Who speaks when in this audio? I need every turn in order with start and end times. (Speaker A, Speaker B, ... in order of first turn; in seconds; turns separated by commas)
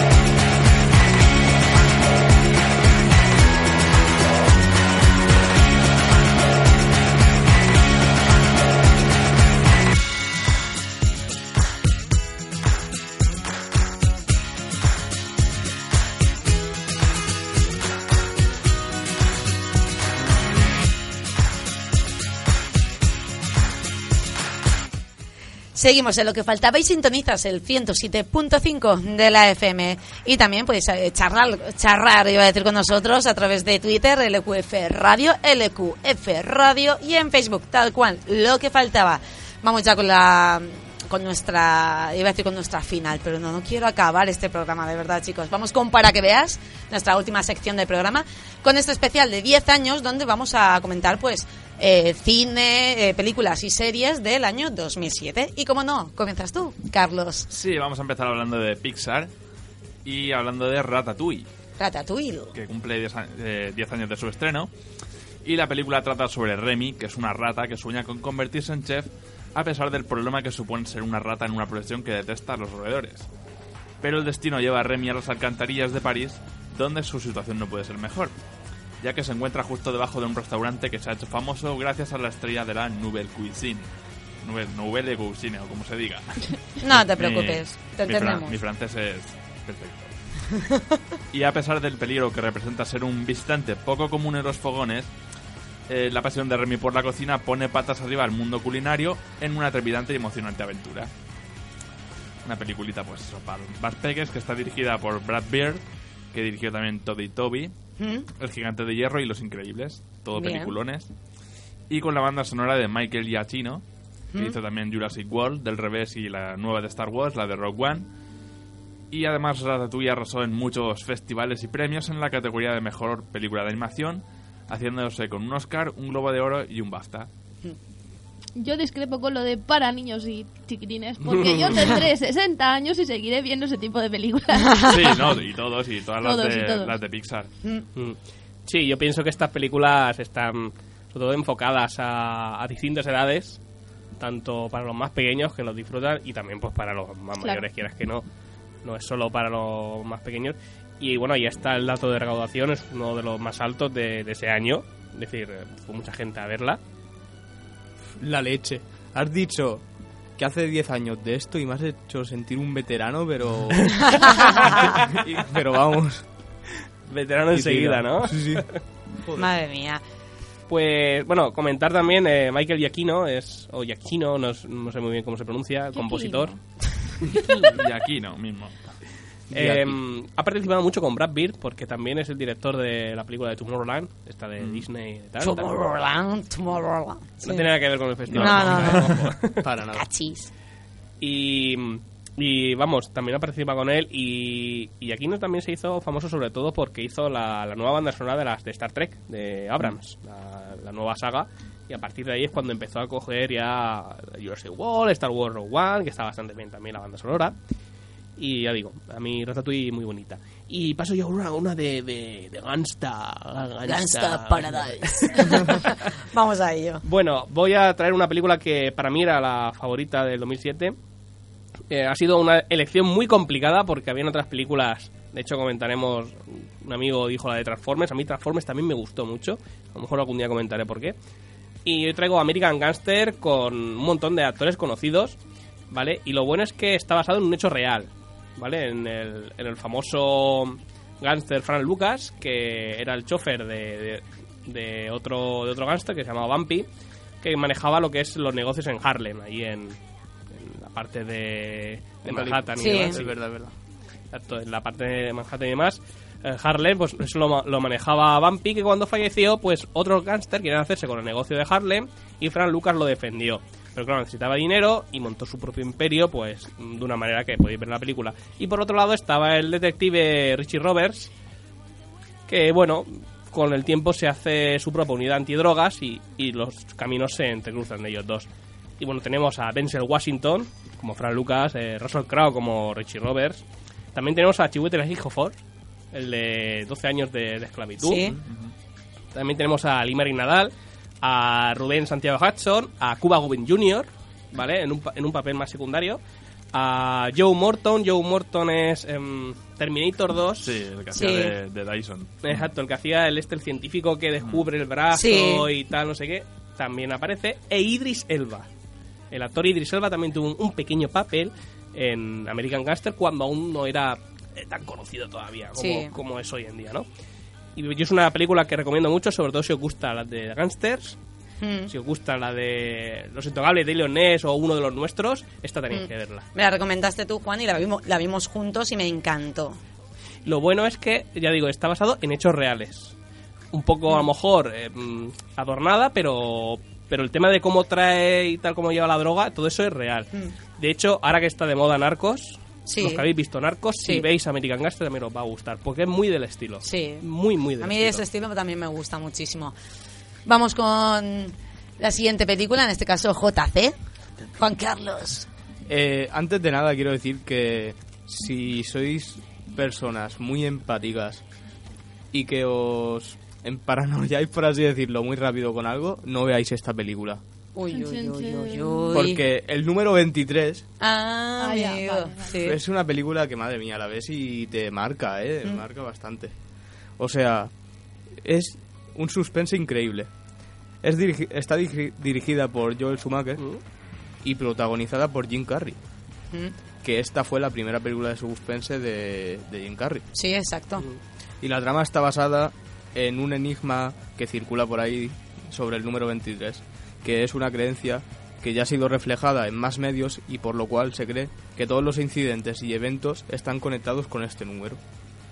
Speaker A: 25.7-57.5, Speaker B: 57.5-59.3, Speaker B: 60.0-61.5, Speaker A: 61.8-62.5, Speaker B: 62.5-64.7, Speaker B: 65.4-73.3, Speaker B: 74.0-78.3, Speaker B: 79.0-83.9, Speaker B: 84.4-90.1, Speaker A: 86.8-88.5, Speaker B: 91.3-95.1, Speaker B: 95.9-101.1, Speaker B: 102.4-107.7, Speaker A: 108.0-108.2, Speaker B: 108.4-111.1, Speaker A: 110.3-110.7, Speaker B: 111.9-113.8, Speaker B: 114.3-118.1, Speaker B: 119.1-127.3, Speaker C: 128.6-135.4, Speaker B: 134.9-137.5, Speaker C: 136.2-136.9, Speaker D: 137.9-143.6, Speaker D: 144.2-148.2, Speaker C: 147.4-147.6, Speaker D: 148.8-156.8, Speaker E: 158.2-159.8, Speaker E: 160.4-166.2, Speaker D: 167.1-168.8, Speaker E: 167.5-168.6, Speaker E: 169.2-169.5, Speaker A: 169.3-170.0, Speaker D: 170.7-176.5, Speaker C: 175.9-176.6, Speaker C: 177.2-177.7, Speaker B: 177.6-179.0, Speaker E: 179.5-180.0, Speaker D: 179.5-185.7, Speaker B: 184.6-184.8, Speaker A: 185.4-187.7, Speaker D: 187.4-189.6, Speaker E: 188.3-189.0, Speaker A: 188.3-189.2, Speaker B: 188.4-189.3, Speaker E: 189.6-190.0, Speaker A: 189.9-190.5, Speaker D: 191.2-207.5, Speaker D: 208.4-215.8, Speaker A: 213.8-217.0, Speaker D: 217.0-220.9, Speaker D: 221.9-231.1, Speaker D: 231.8-235.3, Speaker D: 235.9-246.8, Speaker D: 247.4-249.9, Speaker D: 250.5-253.4, Speaker E: 252.2-253.7, Speaker A: 252.8-253.2, Speaker D: 254.3-271.3, Speaker D: 272.5-278.4, Speaker D: 279.0-283.6, Speaker D: 284.1-285.6, Speaker D: 286.1-288.3, Speaker A: 288.0-288.4, Speaker B: 288.4-288.7, Speaker D: 289.3-290.7, Speaker D: 291.2-296.2, Speaker D: 296.7-300.7, Speaker B: 300.6-302.6, Speaker A: 301.1-301.5, Speaker D: 302.4-308.7, Speaker A: 305.1-305.7, Speaker D: 309.3-317.1, Speaker A: 315.8-316.1, Speaker D: 317.8-321.2, Speaker A: 321.6-321.9, Speaker D: 321.9-326.4, Speaker A: 325.9-329.8, Speaker D: 330.4-333.1, Speaker D: 333.7-348.2, Speaker A: 342.9-343.2, Speaker A: 346.8-347.2, Speaker A: 347.8-349.7, Speaker A: 350.4-353.9, Speaker A: 354.5-355.5, Speaker E: 355.9-361.4, Speaker E: 362.3-367.4, Speaker A: 367.7-369.4, Speaker C: 367.9-369.1, Speaker E: 369.1-370.8, Speaker A: 371.0-372.8, Speaker C: 371.6-372.6, Speaker E: 372.6-376.6, Speaker E: 377.1-380.3, Speaker E: 381.0-383.8, Speaker E: 384.4-386.0, Speaker E: 387.0-390.2, Speaker A: 390.3-391.1, Speaker E: 391.6-405.0